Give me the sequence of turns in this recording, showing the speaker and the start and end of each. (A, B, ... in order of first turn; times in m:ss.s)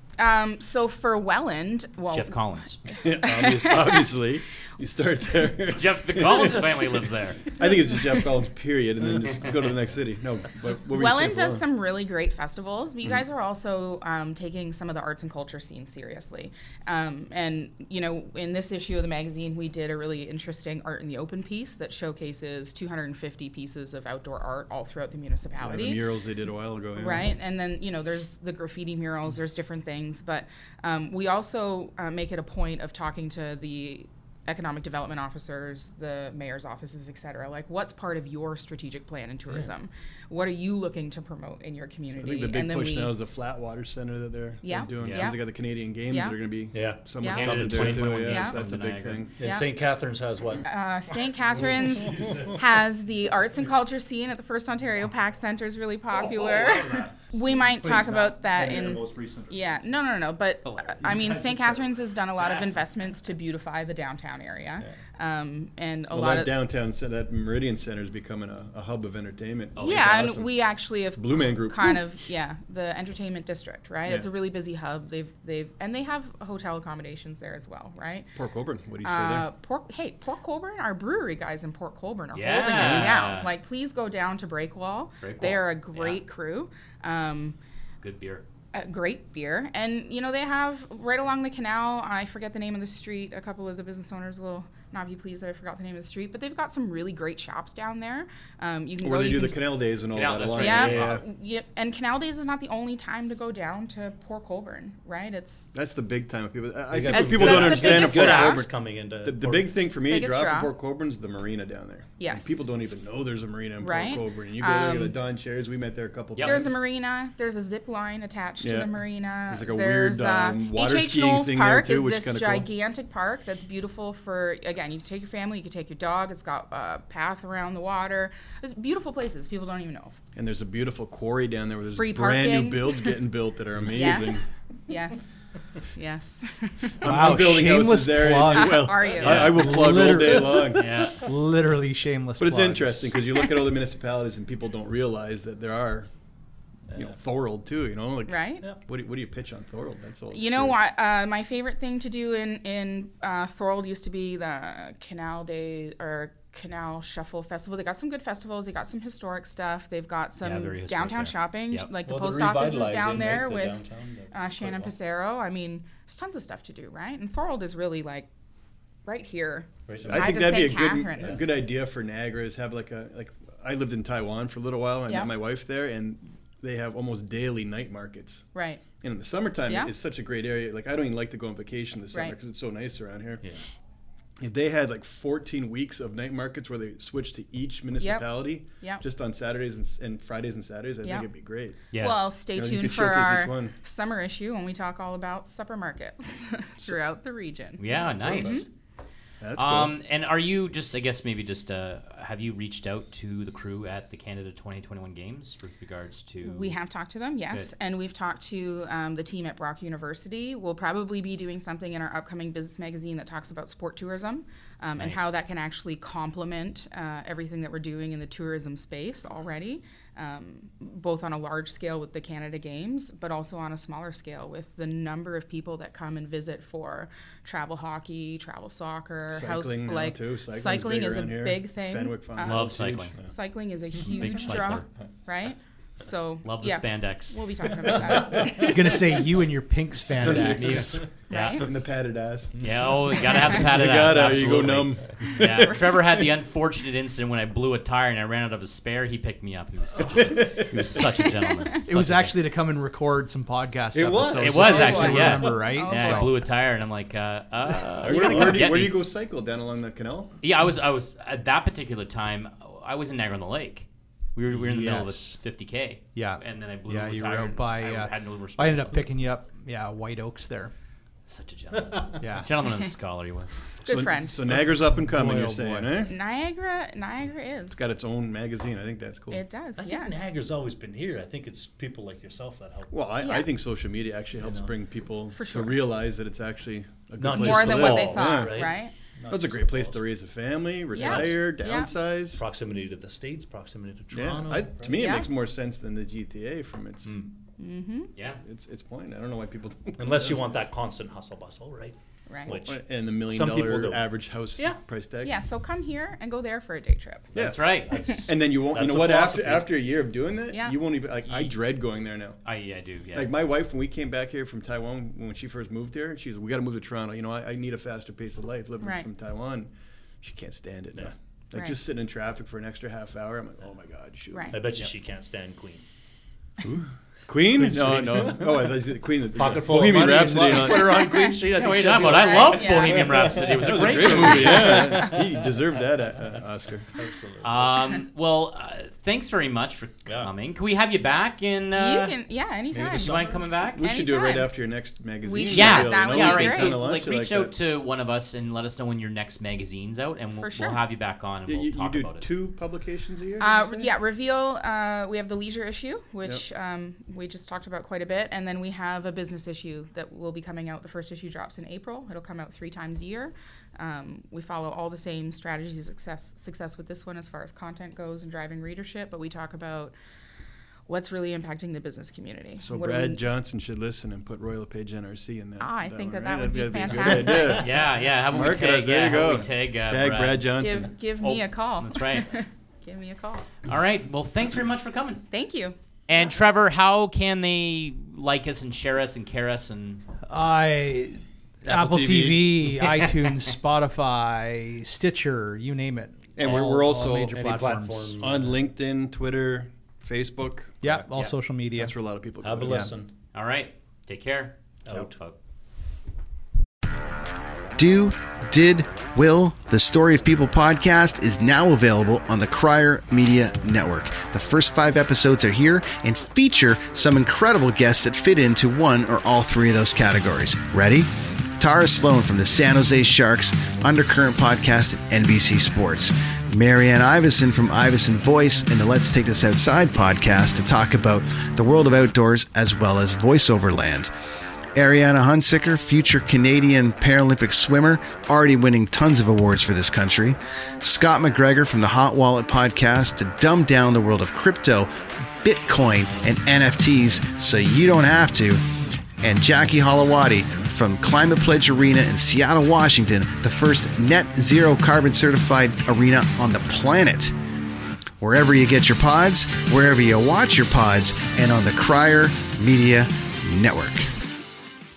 0:00.2-0:04.1 A
0:02.1-0:02.8 B
0:03.0-0:11.6 C
0:05.7-0:07.4 B
0:10.9-0:26.0 A
0:25.6-0:27.3 C
0:26.9-0:43.2 A
0:42.2-0:49.3 C
0:44.6-0:45.5 A
0:45.0-0:45.3 B
0:46.1-0:46.4 A
0:46.7-0:48.4 D
0:47.2-0:47.6 A
0:47.6-0:49.3 B
0:48.2-0:48.6 A
0:49.4-0:50.6 D
0:49.4-0:49.7 A
0:50.6-1:06.5 A
0:52.2-0:52.5 D
0:56.1-0:59.8 D
1:00.6-1:01.1 B
1:01.0-1:01.9 D
1:06.1-1:12.0 C
1:09.8-1:18.3 A
1:18.4-1:19.5 C
1:19.0-1:27.6 A
1:22.3-1:23.5 B
1:22.7-1:23.2 C
1:25.2-1:26.2 B
1:28.0-1:28.4 B
1:28.7-1:39.8 A
1:39.0-1:41.2 C
1:40.1-1:41.2 B
1:40.6-1:45.7 A
1:45.7-1:48.7 C
1:46.9-1:49.7 D
1:47.1-1:48.6 A
1:49.2-1:56.8 C
1:49.9-1:50.7 A
1:52.2-1:52.6 A
1:53.8-1:55.2 A
1:56.3-1:56.6 B
1:56.4-2:10.2 A
1:58.6-2:02.7 C
2:10.4-2:14.5 C
2:11.9-2:13.2 A
2:13.9-2:15.4 A
2:15.9-2:17.0 A
2:17.0-2:21.0 C
2:17.0-2:23.1 E
2:18.4-2:19.6 A
2:19.2-2:19.5 B
2:20.8-2:21.2 B
2:22.4-2:26.1 C
2:23.3-2:23.6 A
2:26.9-2:27.2 D
2:26.9-2:30.8 C
2:28.3-2:28.7 A
2:30.3-2:48.3 A
2:40.4-2:41.9 B
2:42.0-2:44.9 D
2:49.0-2:51.4 A
2:49.9-2:51.4 D
2:50.0-2:58.4 C
2:55.1-2:55.3 A
2:58.5-2:58.9 A
2:59.0-3:03.5 C
2:59.7-2:59.9 A
3:04.4-3:11.9 C
3:08.0-3:09.0 A
3:11.0-3:11.3 A
3:11.9-3:12.2 B
3:11.9-3:18.6 A
3:12.5-3:13.7 C
3:17.8-3:18.6 B
3:18.2-3:18.5 C
3:19.4-3:19.9 C
3:19.6-3:26.8 B
3:26.4-3:58.9 A
3:35.0-3:35.3 B
3:49.3-3:53.3 C
3:52.4-3:53.1 B
3:54.1-3:54.8 B
3:56.4-3:57.4 B
3:58.6-4:01.0 E
4:00.1-4:01.0 C
4:00.2-4:00.6 D
4:00.3-4:01.6 B
4:01.3-4:01.7 A
4:01.6-4:02.9 C
4:02.5-4:02.9 D
4:02.6-4:12.4 B
4:03.4-4:05.7 C
4:10.0-4:11.0 C
4:11.2-4:11.7 A
4:11.8-4:16.3 E
4:13.9-4:15.6 D
4:14.3-4:19.0 B
4:14.7-4:16.4 A
4:18.0-4:20.4 C
4:18.2-4:18.5 E
4:20.4-4:29.1 B
4:24.5-4:25.4 E
4:26.1-4:30.7 E
4:31.3-4:33.6 B
4:31.9-4:32.1 D
4:32.2-4:32.6 E
4:33.8-4:34.5 A
4:33.9-4:36.1 C
4:35.0-4:36.0 E
4:36.0-4:37.8 A
4:37.8-4:39.4 C
4:39.3-4:40.1 A
4:39.8-4:43.0 D
4:42.9-4:48.7 C
4:43.2-4:43.5 A
4:44.4-4:44.7 D
4:45.3-4:45.8 A
4:47.2-4:50.0 D
4:47.3-4:48.9 A
4:49.3-4:52.4 C
4:50.9-4:51.9 A
4:50.9-4:51.4 D
4:52.3-4:55.0 D
4:54.1-4:57.2 C
4:54.9-4:55.3 A
4:57.0-4:57.3 D
4:57.6-4:58.1 A
4:58.2-4:58.4 B
4:58.4-5:00.6 C
5:00.0-5:04.1 D
5:02.3-5:02.6 A
5:02.5-5:05.4 C
5:05.2-5:07.3 A
5:07.3-5:12.4 C
5:07.4-5:08.0 B
5:07.4-5:09.7 D
5:07.9-5:08.3 A
5:10.5-5:10.8 A
5:11.2-5:11.6 B
5:12.4-5:13.3 B
5:13.1-5:19.7 C
5:18.8-5:19.1 A
5:20.2-5:24.6 C
5:24.3-5:24.6 A
5:24.5-5:25.8 D
5:26.6-5:31.0 C
5:27.5-5:28.8 D
5:29.3-5:35.2 D
5:30.9-5:31.4 A
5:31.5-5:34.9 B
5:32.0-5:33.3 A
5:33.6-5:36.9 C
5:34.2-5:35.0 A
5:36.9-5:37.7 D
5:37.4-5:42.1 B
5:40.0-5:40.3 D
5:41.7-5:44.7 A
5:42.7-5:43.4 D
5:43.0-5:43.8 B
5:43.6-5:47.5 C
5:45.2-5:46.8 A
5:45.5-5:52.3 B
5:50.4-5:50.8 A
5:51.4-5:53.9 C
5:53.4-6:09.9 A
6:10.9-6:13.2 A
6:12.6-6:20.9 C
6:15.6-6:17.6 A
6:17.5-6:20.5 B
6:20.6-6:23.5 A
6:21.2-6:22.4 B
6:23.6-6:25.3 B
6:25.3-6:25.8 A
6:26.1-6:30.0 B
6:30.3-6:38.2 E
6:31.6-6:32.5 C
6:32.8-6:33.5 B
6:36.4-6:37.4 C
6:37.3-6:38.6 D
6:38.2-6:40.9 C
6:40.8-6:42.0 E
6:41.1-6:41.4 B
6:41.7-6:42.9 C
6:42.4-6:43.1 D
6:43.3-6:45.4 B
6:44.8-6:45.1 D
6:47.8-7:01.1 F
7:01.6-7:14.1 F
7:14.8-7:24.9 F
7:25.4-7:28.6 F
7:29.2-7:37.3 F
7:38.2-7:44.0 F